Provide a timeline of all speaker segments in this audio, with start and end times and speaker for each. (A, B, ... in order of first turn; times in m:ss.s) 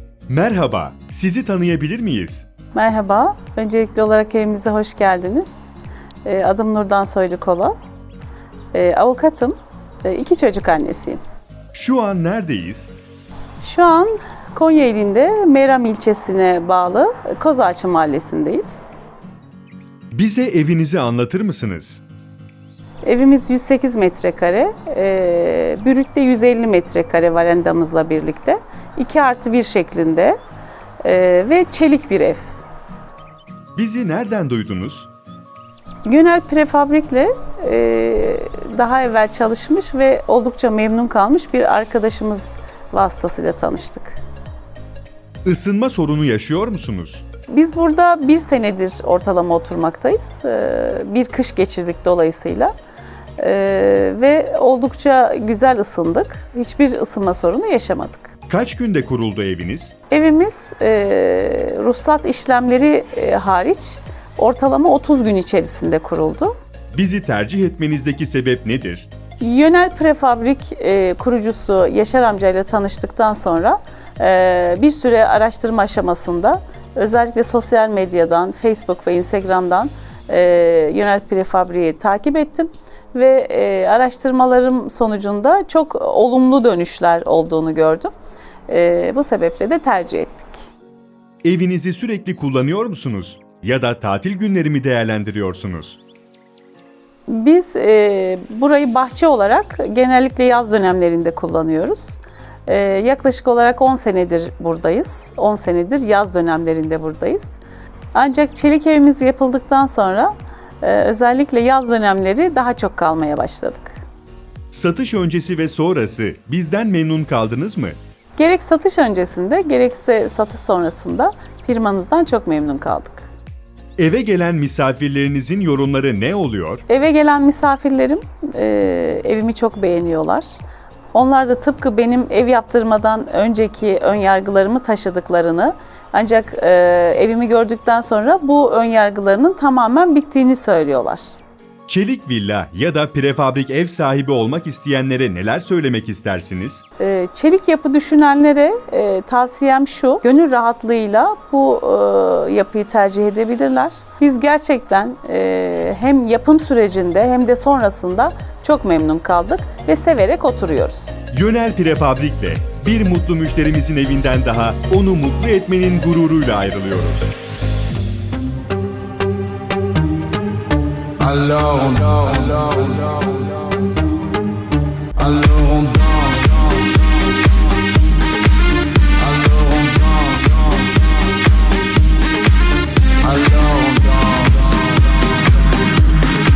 0:00.3-0:02.5 A
0:02.7-0:05.7 B
0:06.2-0:07.8 B
0:08.7-0:11.2 B
0:11.7-0:12.9 A
0:13.6-0:18.9 B
0:20.1-0:22.0 A
0:23.0-0:30.4 B
0:31.0-0:32.5 B
0:33.8-0:35.1 A
0:36.0-0:44.2 B
0:45.4-0:47.2 A
0:47.5-0:52.7 B
0:53.4-0:58.3 B
0:58.5-0:59.9 A
1:00.1-1:06.5 B
1:06.9-1:09.1 A
1:09.4-1:28.1 B
1:28.7-1:30.6 B
1:31.4-1:36.0 A
1:37.3-1:47.6 B
1:48.1-1:54.0 B
1:54.7-1:58.0 A
1:58.4-2:03.3 B
2:04.0-2:06.8 A
2:06.9-2:10.5 B
2:11.1-2:21.3 B
2:21.9-2:26.8 A
2:27.0-2:41.1 B
2:41.3-2:47.3 A
2:51.2-2:53.7 C
2:55.2-2:57.0 C
2:59.2-3:01.1 C
3:03.2-3:05.1 C